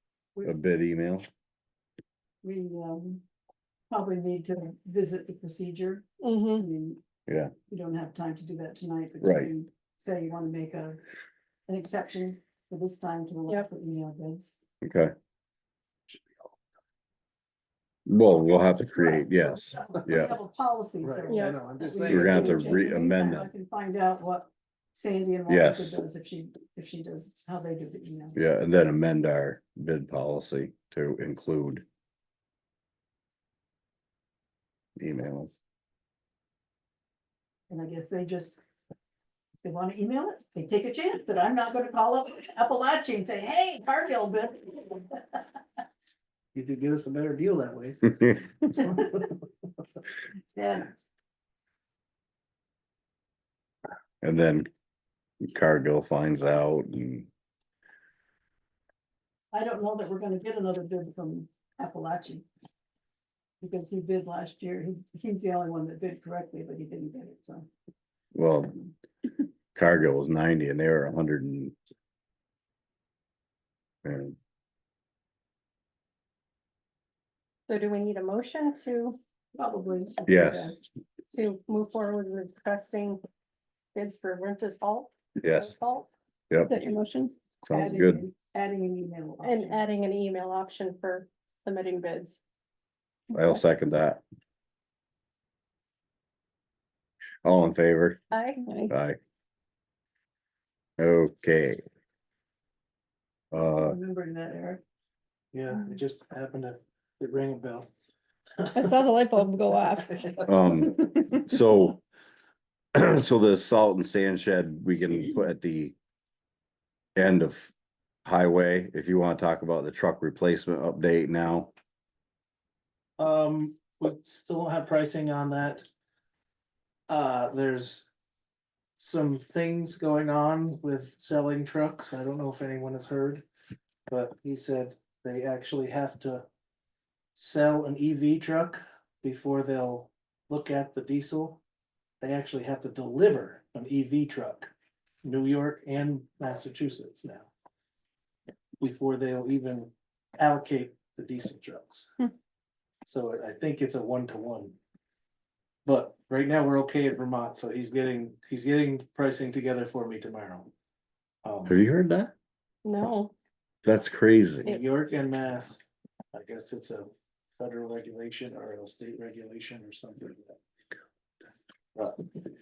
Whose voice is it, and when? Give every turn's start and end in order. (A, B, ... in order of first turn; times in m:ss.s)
0:00.4-0:01.3 A
0:02.4-0:03.2 B
0:03.9-0:07.0 B
0:06.2-0:06.6 C
0:07.3-0:07.5 A
0:07.7-0:11.0 B
0:09.2-0:09.5 A
0:11.7-0:14.6 B
0:14.8-0:15.1 A
0:16.1-0:16.6 D
0:18.1-0:20.4 A
0:18.9-0:28.6 B
0:21.0-0:22.8 D
0:21.3-0:21.6 C
0:22.1-0:23.5 A
0:25.5-0:26.0 A
0:28.4-0:31.8 A
0:35.0-0:35.6 A
0:37.7-0:38.6 B
0:39.6-0:45.4 B
0:46.5-0:48.2 D
0:48.8-0:49.2 D
0:50.5-0:50.9 B
0:54.2-0:54.7 A
0:55.4-0:57.3 A
0:59.5-1:02.4 B
1:03.6-1:07.7 B
1:08.3-1:08.8 A
1:09.7-1:11.7 A
1:14.0-1:14.3 A
1:17.7-1:19.2 C
1:19.5-1:20.8 B
1:20.3-1:20.8 A
1:21.3-1:23.2 C
1:23.9-1:26.1 C
1:25.4-1:25.8 A
1:26.7-1:27.3 E
1:27.6-1:28.3 A
1:27.7-1:29.8 B
1:29.4-1:32.4 C
1:33.3-1:33.6 C
1:33.3-1:34.2 A
1:37.4-1:38.2 A
1:38.3-1:38.6 C
1:38.6-1:38.9 E
1:38.9-1:39.2 A
1:41.0-1:41.8 A
1:43.5-1:44.0 A
1:43.8-1:44.8 B
1:45.5-1:47.9 D
1:48.7-1:51.2 E
1:50.4-1:52.0 A
1:52.9-1:55.9 A
1:57.2-1:57.7 A
1:58.2-2:01.7 A
2:03.2-2:05.9 D
2:07.1-2:08.1 D
2:09.0-2:13.4 D
2:14.1-2:16.4 D
2:17.4-2:21.6 D
2:22.2-2:24.7 D
2:25.2-2:27.5 D
2:28.8-2:32.1 D
2:33.0-2:34.8 D
2:35.8-2:40.7 D
2:41.4-2:41.8 D
2:41.6-2:42.3 A
2:42.8-2:43.3 C
2:43.8-2:44.7 A
2:44.6-2:45.8 D
2:46.3-2:50.6 D